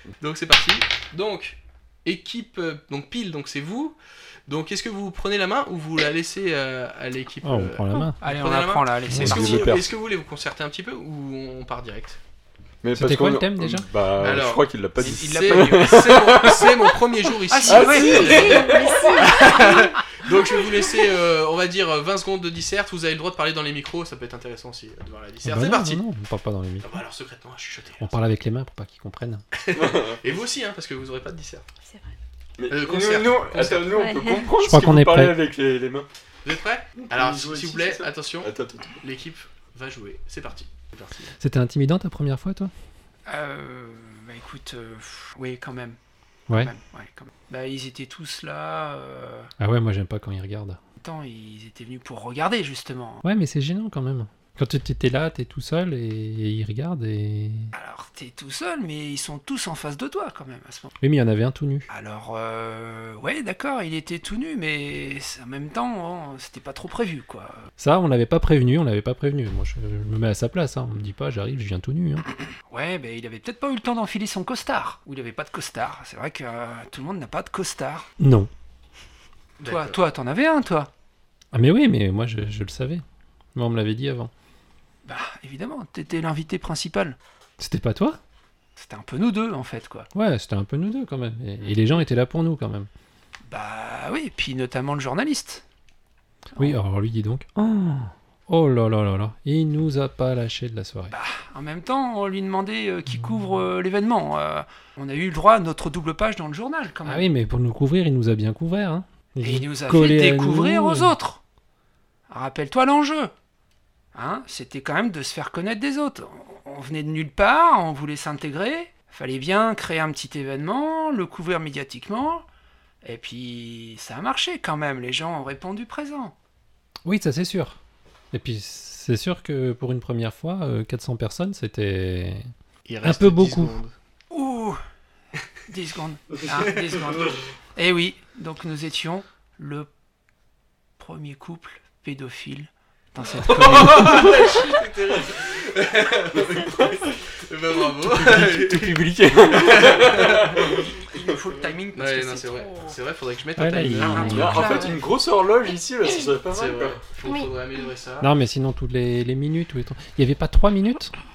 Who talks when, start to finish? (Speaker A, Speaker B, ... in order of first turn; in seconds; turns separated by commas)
Speaker A: 0.2-12.2, Speaker B: 7.4-8.2, Speaker C: 8.2-9.7, Speaker B: 9.1-9.3, Speaker D: 9.1-9.9, Speaker D: 12.8-16.7, Speaker B: 12.9-13.9, Speaker A: 14.2-26.0, Speaker C: 15.0-16.1, Speaker C: 17.5-19.8, Speaker D: 17.6-18.7, Speaker E: 18.1-19.9, Speaker B: 25.4-27.0, Speaker A: 26.8-28.1, Speaker B: 28.0-29.4, Speaker A: 29.5-31.6, Speaker D: 29.7-30.2, Speaker E: 31.9-32.1, Speaker D: 32.6-36.1, Speaker A: 32.7-33.9, Speaker E: 33.9-34.5, Speaker B: 34.6-35.4, Speaker A: 36.4-41.3, Speaker D: 37.0-39.0, Speaker B: 41.4-42.7, Speaker C: 43.3-46.0, Speaker C: 46.5-49.5, Speaker B: 49.6-50.8, Speaker C: 51.0-53.2, Speaker B: 53.2-57.7, Speaker C: 57.7-60.9, Speaker B: 61.0-61.9, Speaker C: 61.9-67.7, Speaker B: 67.8-72.2, Speaker C: 72.7-78.1, Speaker B: 78.2-78.5, Speaker A: 79.6-80.0, Speaker C: 79.6-80.9, Speaker B: 81.5-83.0, Speaker B: 83.5-84.3, Speaker C: 85.0-87.2, Speaker B: 87.6-88.2, Speaker C: 88.8-90.1, Speaker B: 90.1-92.9, Speaker C: 93.5-95.6, Speaker B: 96.6-101.1, Speaker C: 101.1-107.3, Speaker B: 107.0-111.1, Speaker C: 109.4-111.4, Speaker C: 112.3-113.3, Speaker C: 114.1-122.4, Speaker C: 123.0-126.3, Speaker B: 127.0-127.8, Speaker B: 128.3-132.4, Speaker A: 132.8-133.9, Speaker B: 133.0-133.8, Speaker C: 134.3-134.8, Speaker C: 135.7-139.9, Speaker C: 141.0-144.6, Speaker A: 143.4-150.6, Speaker D: 148.0-151.0, Speaker C: 151.1-153.0, Speaker A: 151.9-154.6, Speaker B: 153.6-154.7, Speaker C: 154.0-154.9, Speaker D: 154.3-157.0, Speaker E: 154.4-154.9, Speaker A: 156.5-158.3, Speaker B: 158.2-161.1